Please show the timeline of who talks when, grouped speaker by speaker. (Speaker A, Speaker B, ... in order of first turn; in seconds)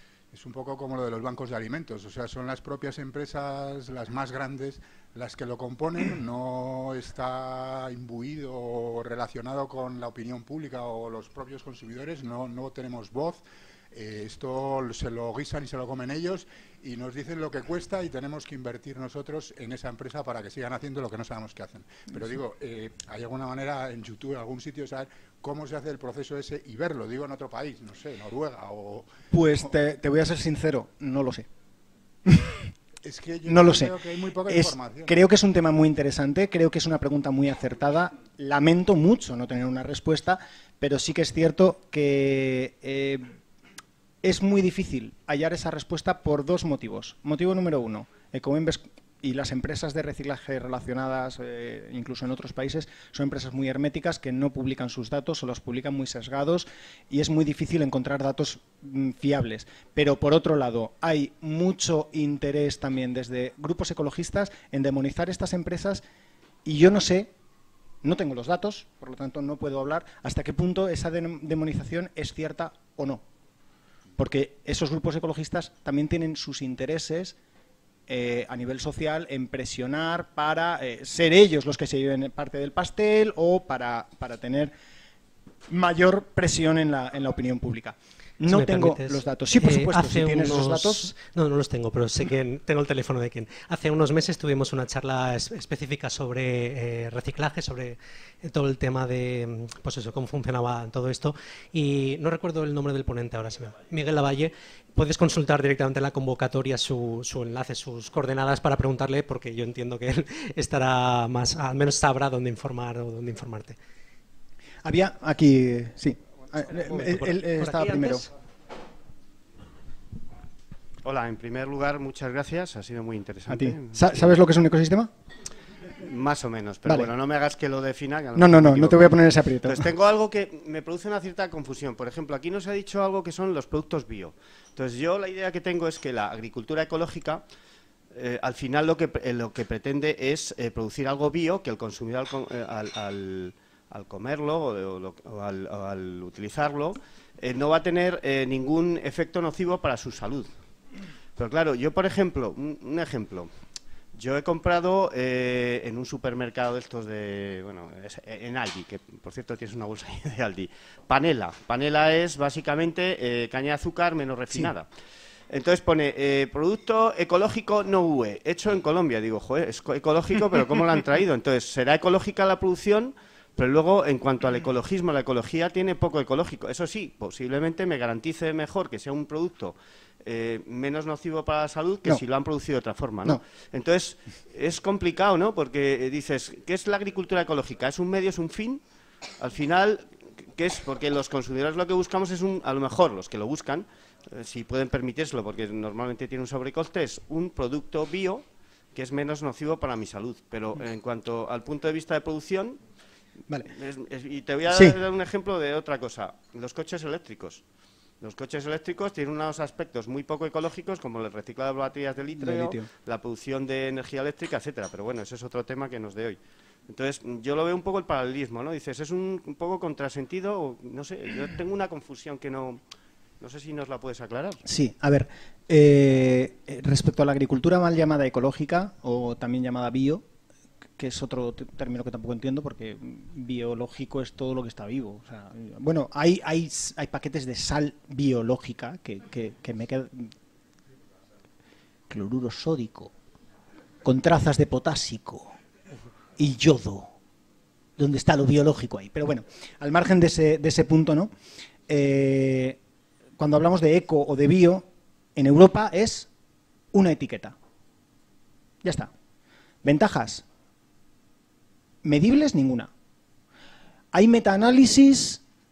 Speaker A: 0.3-13.4, 13.9-29.1, 33.0-35.1
Speaker B: 29.3-31.5, 32.3-32.5, 33.4-34.0, 34.5-43.3, 44.2-66.0, 66.6-67.3, 68.0-73.2, 74.2-77.3, 78.1-84.7, 85.7-91.1, 114.8-118.2, 123.5-125.1, 128.4-129.9, 204.7-205.0, 212.4-212.9, 224.6-230.2, 231.0-240.3, 242.1-243.1, 244.0-245.5, 246.4-247.1, 248.0-251.3, 251.9-252.8, 253.4-254.8, 255.3-256.3, 256.9-257.5, 258.8-259.1, 259.8-260.4, 262.0-262.9, 264.1-265.4
Speaker C: 88.5-113.8, 116.7-118.3
Speaker D: 121.0-124.2, 126.0-137.4, 138.1-150.5, 151.4-153.5, 154.1-164.9, 165.5-188.8, 189.4-198.4, 198.9-202.8, 203.7-207.6, 208.2-222.8, 223.4-224.6